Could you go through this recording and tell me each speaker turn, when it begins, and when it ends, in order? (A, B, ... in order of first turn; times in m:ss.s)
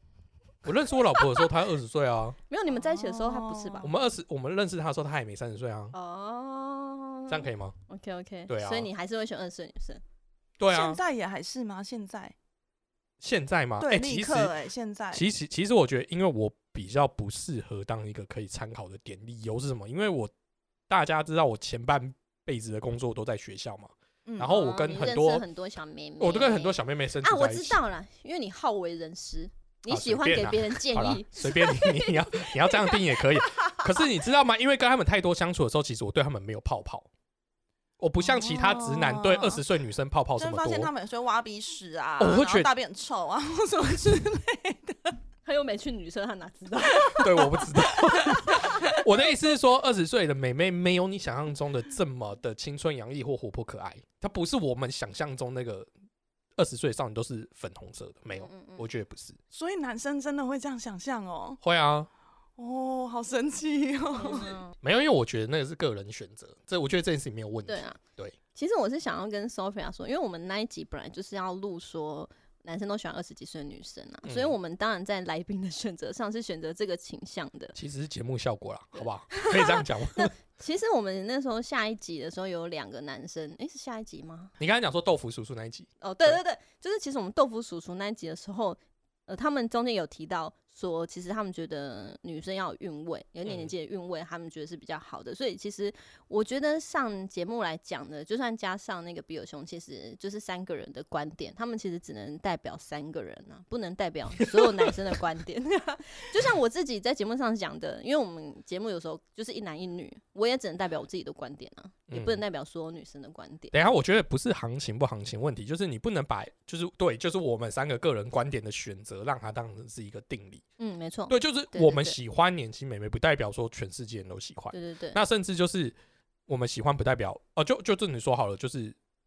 0:00.6-0:02.4 A
0:02.5-0:03.9 B
0:02.7-0:03.9 C
0:03.8-0:05.9 A
0:05.9-0:10.0 B
0:07.3-0:07.8 A
0:08.5-0:08.9 A
0:10.6-0:11.0 A
0:10.7-0:12.3 C
0:13.2-0:14.6 A
0:13.8-0:15.2 C
0:15.1-0:20.3 A
0:20.9-0:25.4 A
0:24.3-0:24.6 C
0:24.5-0:33.8 B
0:26.2-0:27.8 A
0:29.9-0:37.1 A
0:38.0-0:40.9 A
0:38.2-0:39.6 C
0:40.4-0:45.2 C
0:42.2-0:42.7 A
0:45.4-0:47.5 B
0:47.2-0:55.9 A
0:48.5-0:48.8 B
0:56.6-0:59.4 A
0:58.3-0:58.9 B
0:59.5-1:01.6 C
1:01.6-1:02.1 A
1:02.6-1:04.6 C
1:04.2-1:04.8 B
1:04.8-1:08.4 A
1:07.7-1:08.0 B
1:08.5-1:17.8 B
1:14.2-1:14.6 A
1:17.8-1:20.3 A
1:18.9-1:24.5 B
1:24.6-1:26.4 A
1:26.0-1:53.7 B
1:33.4-1:33.7 A
1:52.1-1:52.4 A
1:53.7-2:00.6 A
2:00.8-2:02.2 B
2:01.3-2:06.0 A
2:04.7-2:05.2 B
2:06.5-2:09.0 A